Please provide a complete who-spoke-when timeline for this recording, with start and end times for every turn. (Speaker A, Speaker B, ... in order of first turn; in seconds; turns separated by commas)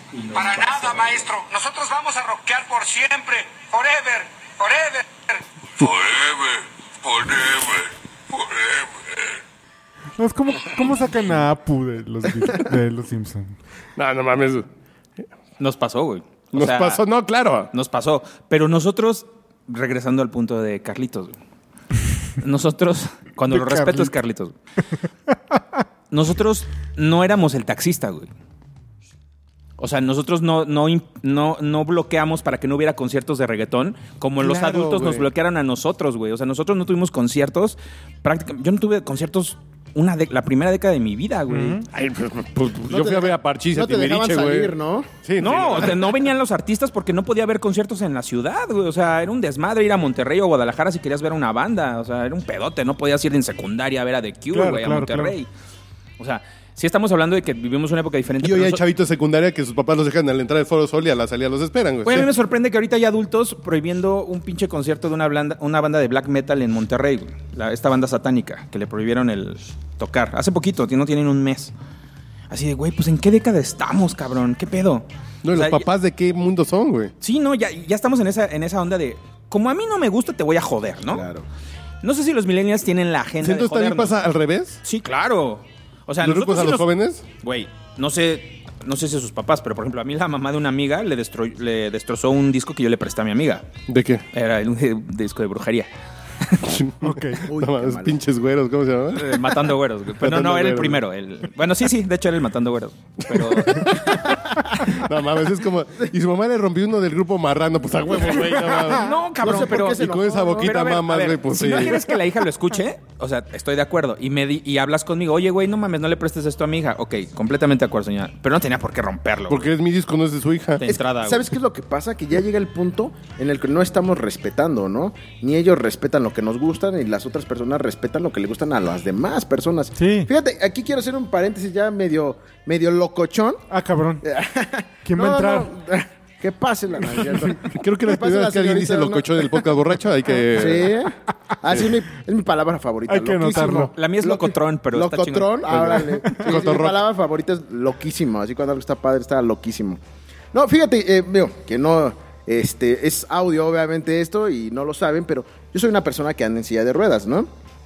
Speaker A: 0.1-1.1, Speaker B: 0.3-5.1, Speaker C: 5.8-9.4, Speaker D: 10.2-13.6, Speaker E: 14.0-14.7, Speaker A: 15.6-17.0, Speaker E: 16.5-17.7, Speaker A: 17.7-21.4, Speaker A: 22.4-24.5, Speaker D: 23.5-24.1, Speaker A: 26.1-28.3, Speaker A: 29.8-41.8, Speaker E: 34.4-35.3, Speaker D: 41.5-41.8, Speaker E: 41.9-46.2, Speaker F: 42.9-45.1, Speaker A: 45.4-55.5, Speaker D: 54.5-55.4, Speaker A: 56.2-58.8, Speaker E: 58.4-62.3, Speaker A: 62.0-71.7, Speaker A: 72.5-75.8, Speaker E: 75.4-77.1, Speaker A: 77.2-81.3, Speaker F: 81.1-81.5, Speaker A: 82.0-84.2, Speaker E: 83.4-84.8, Speaker A: 84.8-86.9, Speaker E: 86.2-87.2, Speaker A: 87.4-93.6, Speaker E: 93.9-94.2, Speaker A: 94.3-95.9, Speaker E: 96.6-101.0, Speaker D: 97.0-97.5, Speaker F: 97.5-98.2, Speaker A: 99.1-104.2, Speaker E: 103.2-104.1, Speaker E: 104.9-112.2, Speaker A: 108.9-119.7, Speaker F: 109.4-110.7, Speaker E: 119.5-120.9, Speaker A: 120.8-121.5, Speaker F: 120.9-133.6, Speaker D: 130.0-130.3, Speaker D: 133.7-134.2, Speaker F: 134.2-139.6, Speaker D: 135.1-135.7, Speaker E: 137.5-141.0, Speaker F: 140.5-150.0, Speaker D: 143.1-143.9, Speaker A: 144.0-145.9, Speaker E: 145.7-147.1, Speaker F: 150.5-157.5